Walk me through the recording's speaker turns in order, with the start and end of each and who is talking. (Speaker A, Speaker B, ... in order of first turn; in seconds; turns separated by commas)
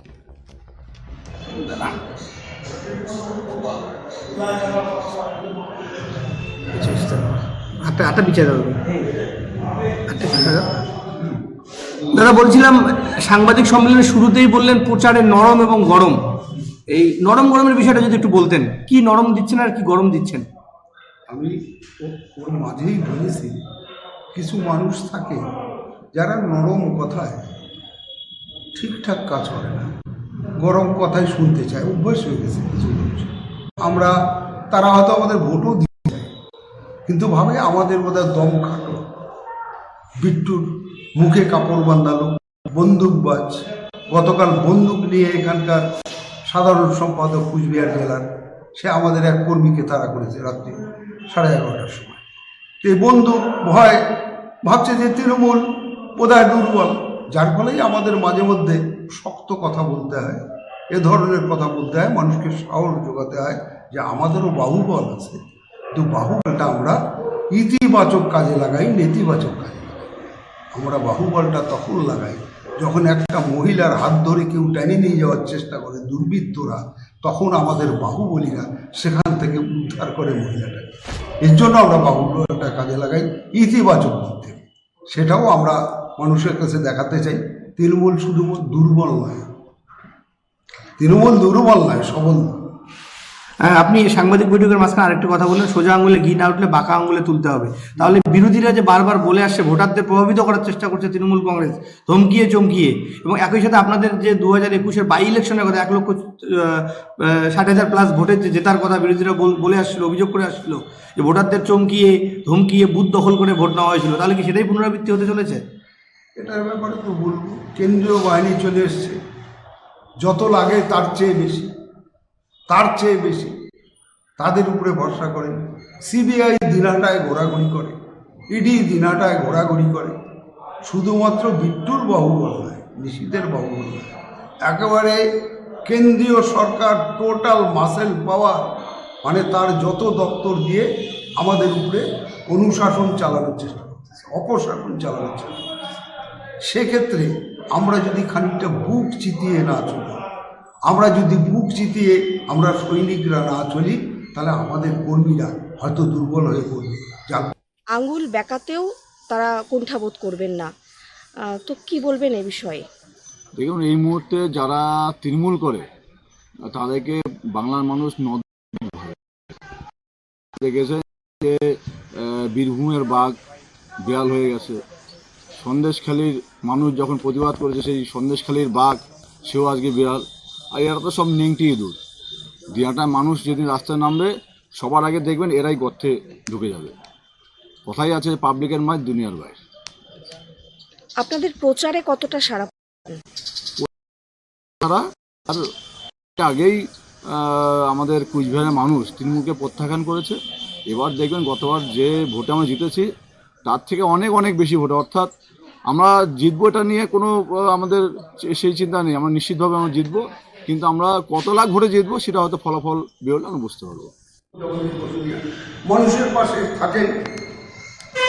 Speaker A: 1.5-2.0, Speaker A: 6.7-9.0, Speaker A: 10.1-10.8, Speaker A: 12.1-16.2, Speaker A: 16.9-20.5, Speaker B: 21.3-23.6, Speaker B: 24.3-25.5, Speaker B: 26.1-27.5, Speaker B: 28.8-29.9, Speaker B: 30.6-33.3, Speaker B: 33.8-34.1, Speaker B: 34.7-36.3, Speaker B: 37.1-39.0, Speaker B: 40.2-45.8, Speaker B: 46.5-52.2, Speaker B: 52.8-54.0, Speaker B: 54.6-60.4, Speaker B: 60.9-65.4, Speaker B: 66.0-67.0, Speaker B: 67.5-70.2, Speaker B: 70.7-89.5, Speaker B: 91.0-92.6, Speaker A: 93.6-115.6, Speaker B: 116.4-119.2, Speaker B: 120.2-121.7, Speaker B: 122.7-123.5, Speaker B: 124.4-128.0, Speaker B: 128.5-130.2, Speaker B: 130.8-134.1, Speaker B: 134.7-135.2, Speaker B: 135.9-138.7, Speaker B: 139.2-140.9, Speaker B: 141.4-145.7, Speaker B: 146.6-150.2, Speaker B: 150.9-157.5, Speaker C: 157.9-160.7, Speaker C: 161.4-162.8, Speaker D: 163.6-165.9, Speaker D: 166.7-169.2, Speaker D: 170.6-173.4, Speaker D: 174.1-174.8, Speaker D: 175.6-182.0, Speaker D: 182.7-186.9, Speaker D: 187.9-189.6, Speaker C: 191.2-193.2, Speaker D: 194.8-195.6, Speaker D: 196.4-196.8, Speaker D: 197.3-200.4, Speaker D: 200.9-203.1, Speaker D: 203.7-205.3, Speaker D: 205.9-214.1, Speaker B: 214.6-217.1